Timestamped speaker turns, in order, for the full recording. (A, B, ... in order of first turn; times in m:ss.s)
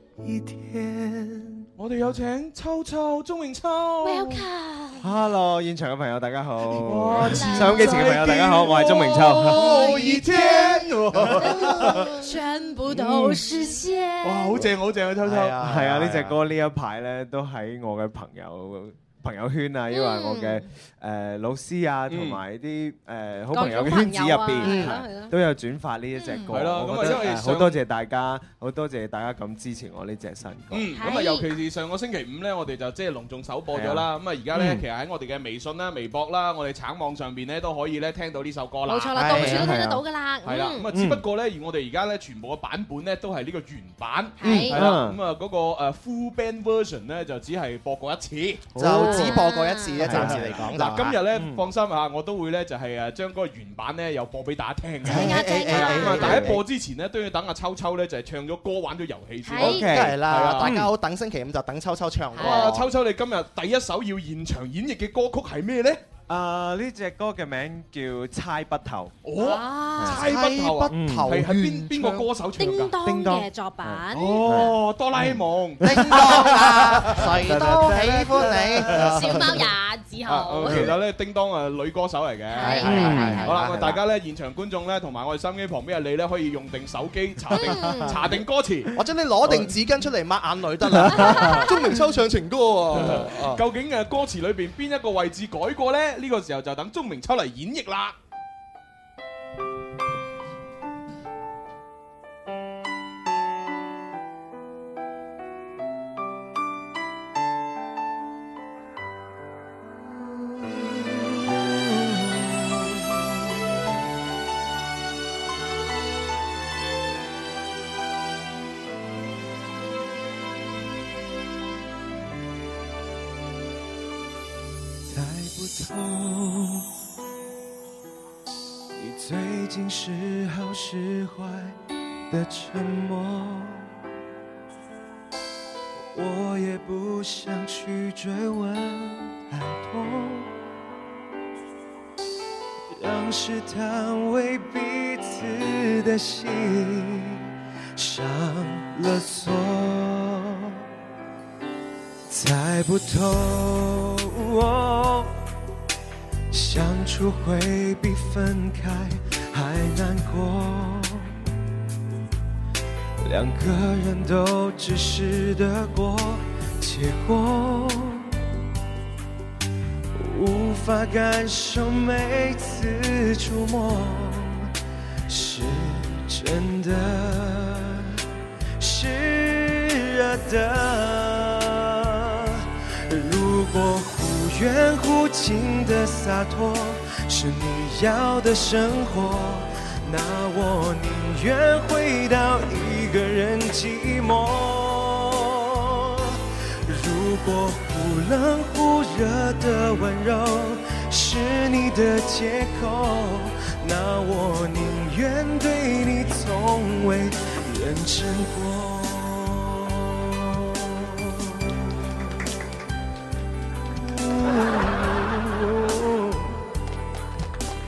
0:00.2-0:01.7 A
0:01.8-0:04.4 B
0:04.0-0:05.1 C
0:05.0-0:09.8 D
0:06.8-0:12.1 B
0:07.1-0:08.0 C
0:09.5-0:10.8 C
0:11.4-0:14.6 C
0:14.2-0:15.6 B
0:15.2-0:16.4 E
0:15.6-0:30.9 D
0:19.9-0:20.6 C
0:22.1-0:22.4 B
0:23.5-0:25.3 C
0:24.6-0:25.0 E
0:26.5-0:27.8 B
0:30.7-0:39.7 B
0:30.9-0:31.5 C
0:33.7-0:34.8 D
0:38.9-0:40.9 C
0:39.2-0:39.6 E
0:39.2-0:40.0 D
0:40.4-0:49.2 B
0:40.9-0:41.2 D
0:44.4-0:44.8 C
0:44.7-0:45.2 D
0:48.8-0:49.3 D
0:48.8-0:51.2 E
0:48.8-0:50.2 C
0:50.0-0:50.6 D
0:50.1-1:00.8 B
0:51.3-0:51.7 D
0:55.0-0:56.6 E
0:55.0-0:56.5 C
0:59.4-0:59.9 C
0:59.6-1:02.9 E
0:59.6-1:00.9 D
1:02.3-1:02.8 C
1:02.4-1:06.0 B
1:06.3-1:09.2 D
1:09.2-1:13.0 B
1:09.4-1:10.2 C
1:10.0-1:12.3 E
1:10.9-1:11.4 D
1:12.6-1:14.5 C
1:13.0-1:15.4 D
1:14.1-1:17.3 B
1:15.8-1:19.5 E
1:15.9-1:16.4 D
1:17.3-1:18.7 D
1:18.9-1:19.2 B
1:19.0-1:20.9 C
1:20.2-1:28.9 B
1:22.5-1:23.5 C
1:22.6-1:23.5 E
1:22.7-1:24.0 D
1:27.5-1:28.1 C
1:29.0-1:33.6 E
1:31.1-1:31.7 C
1:32.9-1:38.2 B
2:05.1-2:06.9 A
2:09.0-2:11.8 A
2:12.3-2:13.9 A
2:16.1-2:20.5 A
2:23.0-2:30.8 A
2:32.3-2:35.4 A
2:36.5-2:41.4 A
2:43.2-2:48.4 A
2:50.2-2:54.7 A
2:55.3-2:58.2 A
2:58.8-3:32.3 A
3:34.1-3:36.4 A